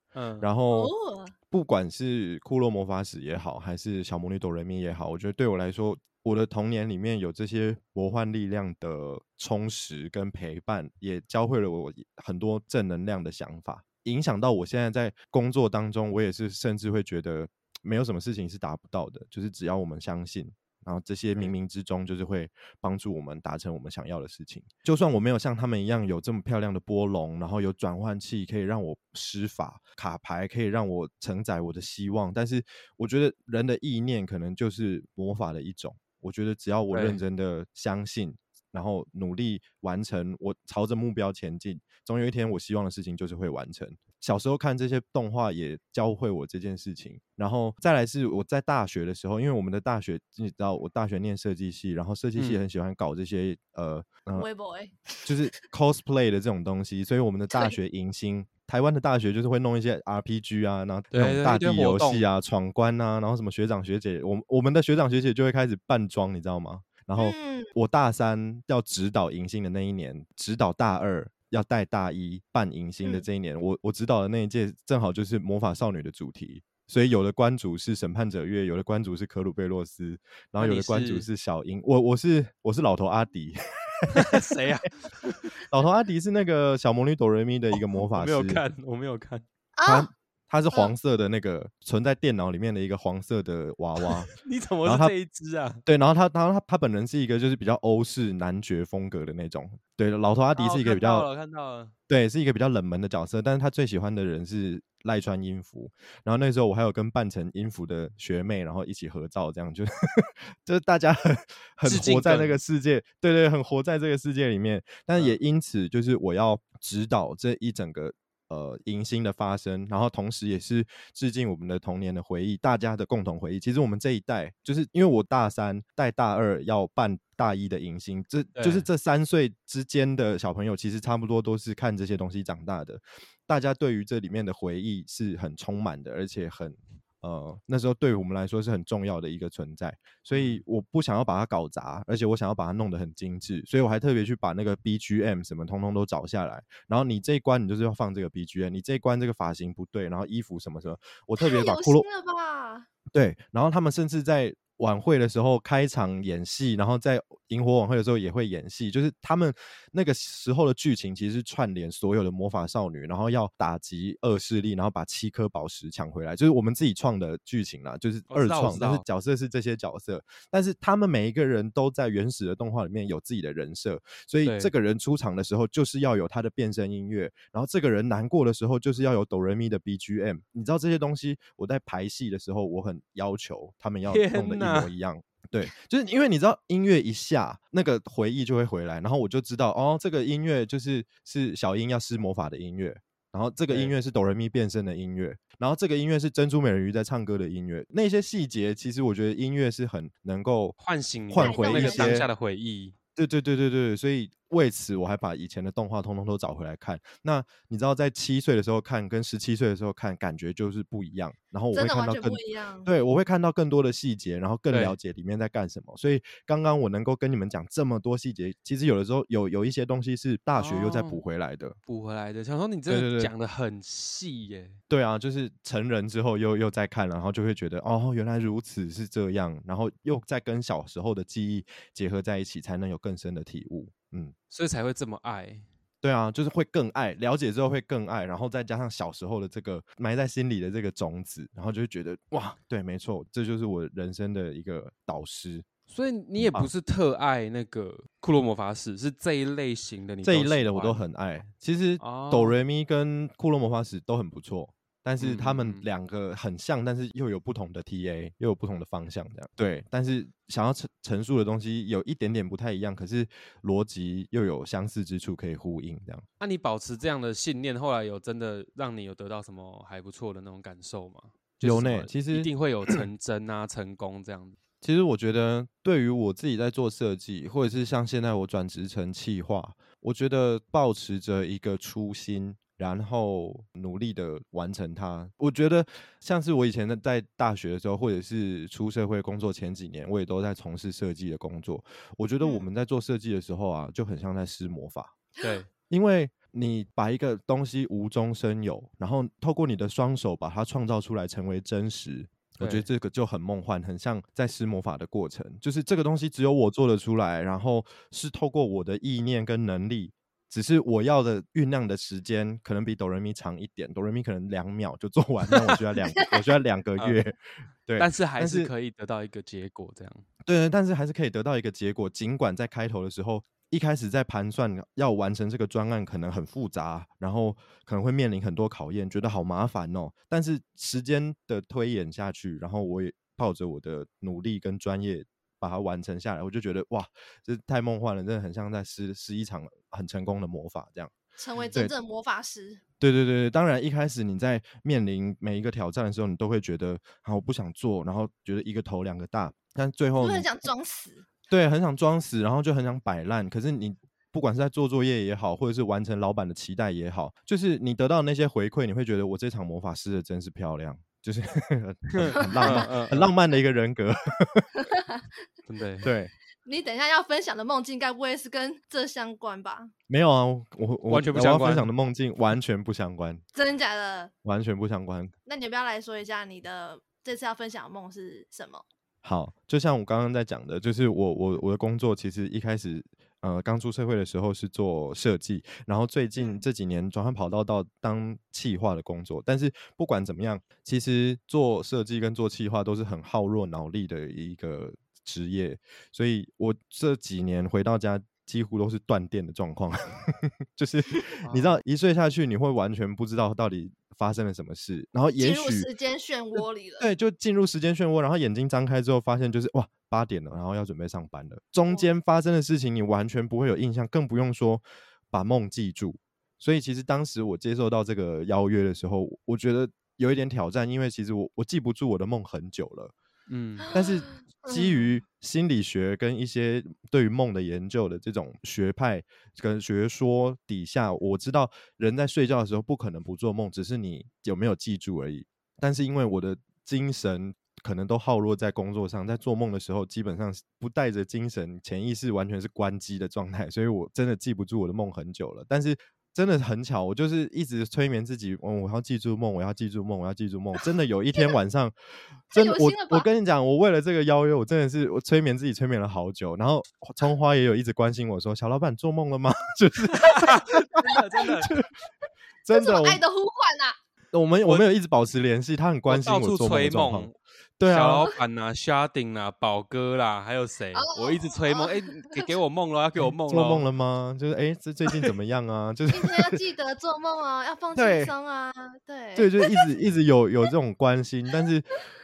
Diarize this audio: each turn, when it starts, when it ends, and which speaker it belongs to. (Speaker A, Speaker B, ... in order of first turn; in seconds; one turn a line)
Speaker A: 0.1-0.5
Speaker B: 0.4-0.9
Speaker C: 0.7-1.4
Speaker B: 1.5-54.5
Speaker A: 36.9-37.2
Speaker A: 52.4-52.6
Speaker C: 54.4-55.3
Speaker B: 55.2-84.4
Speaker C: 57.5-57.8
Speaker A: 61.1-62.2
Speaker C: 67.2-67.7
Speaker A: 80.6-81.3
Speaker A: 84.1-85.6
Speaker B: 85.7-88.6
Speaker A: 87.7-89.5
Speaker C: 89.8-90.1
Speaker B: 89.9-94.3
Speaker A: 94.0-95.8
Speaker B: 94.8-95.1
Speaker B: 95.8-101.3
Speaker A: 100.6-101.9
Speaker B: 102.1-152.1
Speaker A: 111.8-112.6
Speaker A: 128.6-128.9
Speaker A: 140.3-140.6
Speaker C: 151.4-152.9
Speaker B: 153.1-200.8
Speaker A: 168.3-169.0
Speaker A: 174.4-174.7
Speaker A: 184.1-184.9
Speaker A: 193.7-194.0
Speaker A: 200.8-203.0
Speaker B: 201.3-202.3
Speaker C: 201.4-202.2
Speaker B: 203.2-221.8
Speaker C: 211.7-212.9
Speaker A: 214.7-215.0
Speaker A: 220.6-221.2
Speaker A: 221.9-224.8
Speaker B: 222.9-223.3
Speaker B: 224.9-234.3
Speaker A: 234.5-235.7
Speaker B: 236.0-245.7
Speaker A: 245.9-251.0
Speaker B: 246.4-246.7
Speaker B: 250.2-266.2
Speaker A: 252.0-252.6
Speaker A: 255.2-255.8
Speaker A: 266.4-274.6
Speaker B: 271.6-273.0
Speaker B: 274.8-295.1
Speaker C: 292.4-292.7
Speaker A: 295.4-295.7
Speaker B: 295.9-317.4
Speaker A: 302.6-302.9
Speaker A: 315.5-315.8
Speaker A: 317.0-317.2
Speaker B: 317.9-318.7
Speaker A: 318.0-320.2
Speaker B: 320.4-341.1
Speaker C: 341.4-342.8
Speaker B: 343.0-350.5
Speaker C: 350.2-351.2
Speaker B: 351.5-364.7
Speaker A: 362.1-363.3
Speaker C: 362.4-362.9
Speaker C: 364.8-365.3
Speaker A: 365.7-366.1
Speaker B: 366.0-366.3
Speaker C: 366.6-369.9
Speaker B: 370.1-373.4
Speaker A: 371.1-371.9
Speaker C: 373.6-374.3
Speaker B: 374.4-375.3
Speaker C: 375.5-378.8
Speaker B: 379.2-405.9
Speaker C: 405.4-407.1
Speaker B: 407.0-423.1
Speaker A: 423.5-423.9
Speaker C: 423.9-425.1
Speaker B: 423.9-451.9
Speaker B: 452.5-461.9
Speaker C: 452.5-453.3
Speaker A: 460.2-461.8
Speaker B: 462.6-463.2
Speaker C: 462.7-464.0
Speaker B: 464.3-468.3
Speaker A: 466.1-473.9
Speaker C: 470.9-472.5
Speaker B: 473.2-476.6
Speaker C: 476.1-479.8
Speaker B: 477.9-478.3
Speaker B: 479.4-481.9